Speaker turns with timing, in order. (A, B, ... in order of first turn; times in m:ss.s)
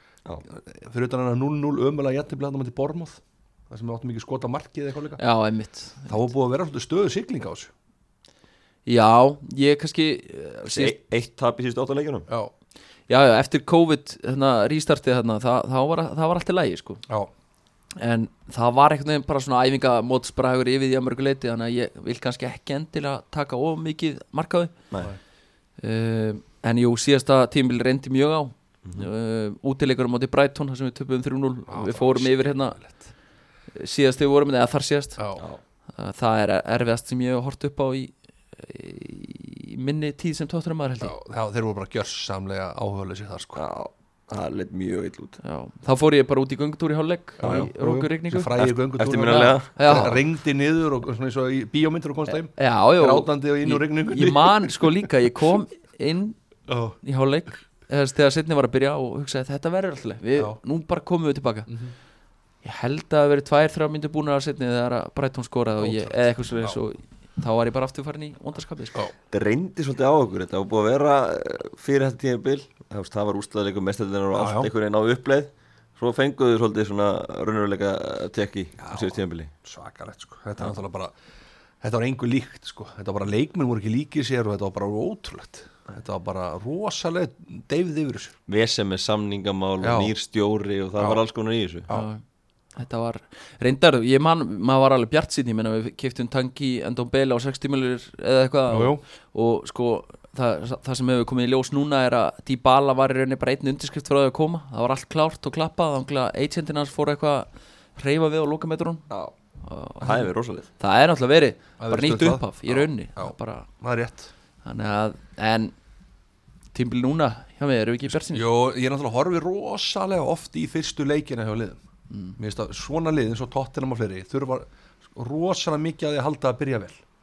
0:00.5-0:05.2 A
0:05.2-0:06.2 B
0:06.1-0:07.7 A
0:08.9-0:10.9 B
0:10.6-0:12.3 C
0:13.1-0:17.0 B
0:18.0-0:24.8 B
0:25.8-0:32.8 B
0:28.8-0:29.1 C
0:31.7-0:33.0 A
0:33.7-0:35.2 B
0:35.2-0:35.4 A
0:36.0-0:41.1 B
0:41.0-0:43.6 A
0:43.6-0:45.4 C
0:45.4-0:48.5 B
0:47.4-0:55.1 A
0:47.4-0:47.7 C
0:48.6-0:50.2 C
0:49.8-0:50.2 B
0:52.5-0:56.4 B
0:56.7-0:57.0 A
0:57.0-1:01.7 B
1:01.7-1:01.9 A
1:02.6-1:09.0 B
1:05.8-1:06.8 A
1:09.3-1:19.5 C
1:14.3-1:14.7 A
1:18.8-1:21.1 A
1:21.8-1:28.3 A
1:28.5-1:31.9 C
1:29.8-1:30.1 A
1:31.9-1:32.2 B
1:32.8-1:49.1 B
1:38.7-1:39.0 A
1:49.6-1:53.7 B
1:50.0-1:50.7 C
1:51.8-1:54.3 A
1:54.6-1:55.7 B
1:56.7-1:58.5 B
1:58.3-2:01.8 A
2:02.1-2:02.4 B
2:02.4-2:07.0 A